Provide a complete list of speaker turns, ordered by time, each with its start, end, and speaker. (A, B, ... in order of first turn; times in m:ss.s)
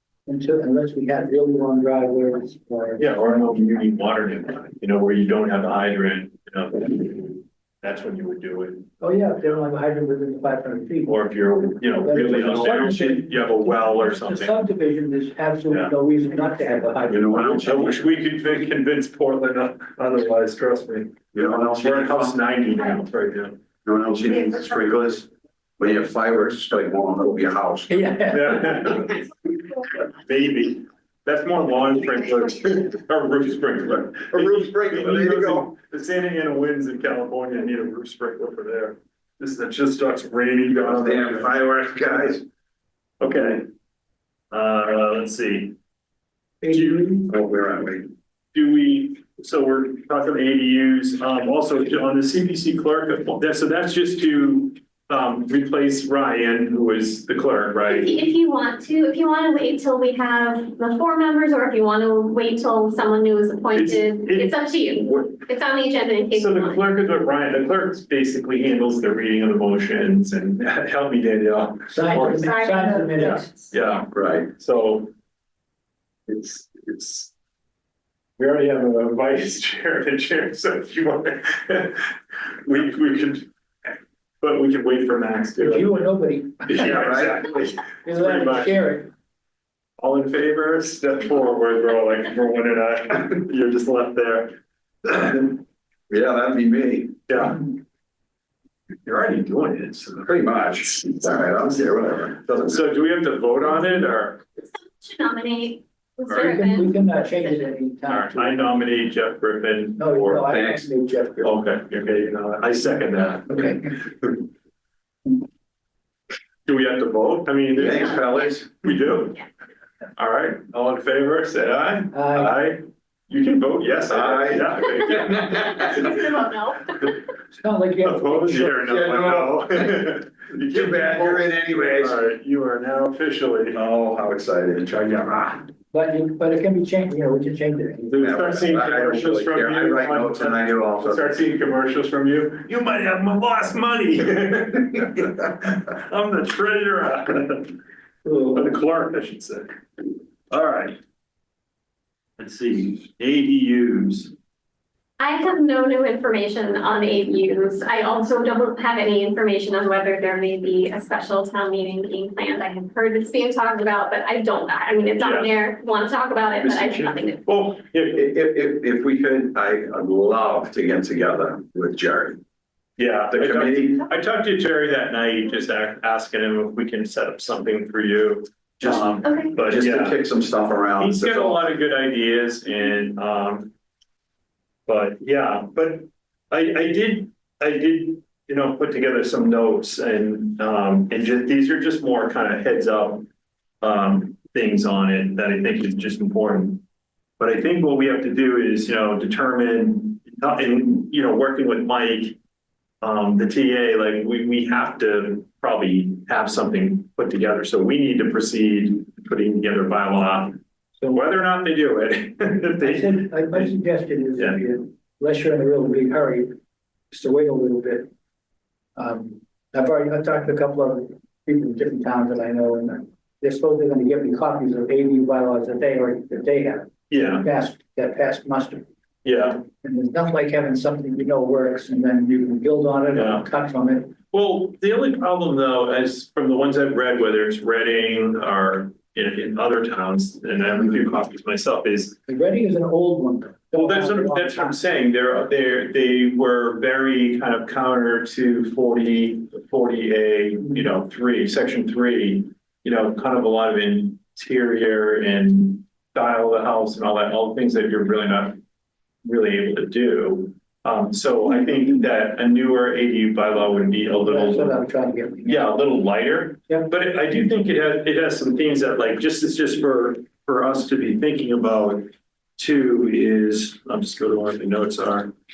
0:00.3-0:03.0 A
0:03.0-0:08.9 B
0:09.0-0:11.4 A
0:11.0-0:14.6 B
0:12.0-0:17.9 A
0:17.1-0:18.0 C
0:17.3-0:23.6 B
0:21.3-0:22.4 C
0:23.8-0:25.3 C
0:25.8-0:28.0 C
0:27.9-0:28.9 A
0:28.3-0:29.2 B
0:30.1-0:41.5 B
0:34.2-0:35.7 C
0:40.7-0:42.4 C
0:43.2-0:43.6 B
0:44.5-0:45.8 B
0:46.6-0:47.3 A
0:46.7-0:47.2 B
0:47.3-0:48.1 C
0:48.5-0:58.1 B
0:57.9-1:06.8 D
1:03.7-1:05.4 B
1:06.3-1:12.6 B
1:11.9-1:13.5 A
1:12.3-1:14.0 D
1:13.7-1:15.1 B
1:14.1-1:14.5 C
1:16.3-1:17.3 B
1:18.4-1:23.5 B
1:24.4-1:26.1 B
1:25.6-1:27.0 A
1:26.6-1:29.1 B
1:26.8-1:27.4 C
1:28.0-1:29.1 A
1:30.0-1:35.6 B
1:36.1-1:37.2 C
1:37.3-1:37.7 B
1:39.0-1:40.4 B
1:40.2-1:42.8 C
1:42.5-1:44.4 B
1:44.7-1:47.7 D
1:46.3-1:48.8 A
1:48.1-1:50.6 B
1:50.0-1:51.5 A
1:50.5-1:50.9 C
1:51.4-1:54.4 B
1:53.5-1:53.8 A
1:56.6-1:59.4 B
1:57.8-1:58.6 C
2:00.2-2:06.0 B
2:02.1-2:02.5 A
2:04.1-2:05.8 C
2:05.2-2:07.1 D
2:07.5-2:09.0 A
2:08.0-2:13.8 B
2:08.9-2:10.0 C
2:10.6-2:12.2 C
2:13.7-2:15.6 C
2:15.9-2:18.2 A
2:18.0-2:27.7 B
2:18.2-2:21.3 C
2:28.2-2:28.7 A
2:28.5-2:29.8 B
2:30.5-2:31.0 B
2:32.4-2:34.3 B
2:35.2-2:47.4 D
2:45.2-2:45.5 B
2:46.6-2:48.2 B
2:48.1-2:52.4 C
2:53.0-3:00.2 B
2:53.3-2:54.0 C
2:58.8-3:01.6 C
2:59.2-2:59.5 D
3:01.0-3:03.7 B
3:04.9-3:13.3 B
3:13.8-3:16.8 B
3:17.4-3:22.4 B
3:23.0-3:30.6 B
3:31.1-3:33.7 B
3:32.8-3:36.5 A
3:34.4-3:34.6 B
3:37.1-3:38.1 A
3:39.0-3:48.8 A
3:47.1-3:47.5 B
3:49.2-3:49.6 B
3:49.8-3:54.1 A
3:53.1-3:53.4 B
3:54.3-4:02.2 B
4:02.3-4:04.8 A
4:03.7-4:18.6 B
4:19.2-4:24.8 B
4:24.2-4:25.7 A
4:25.4-4:35.3 B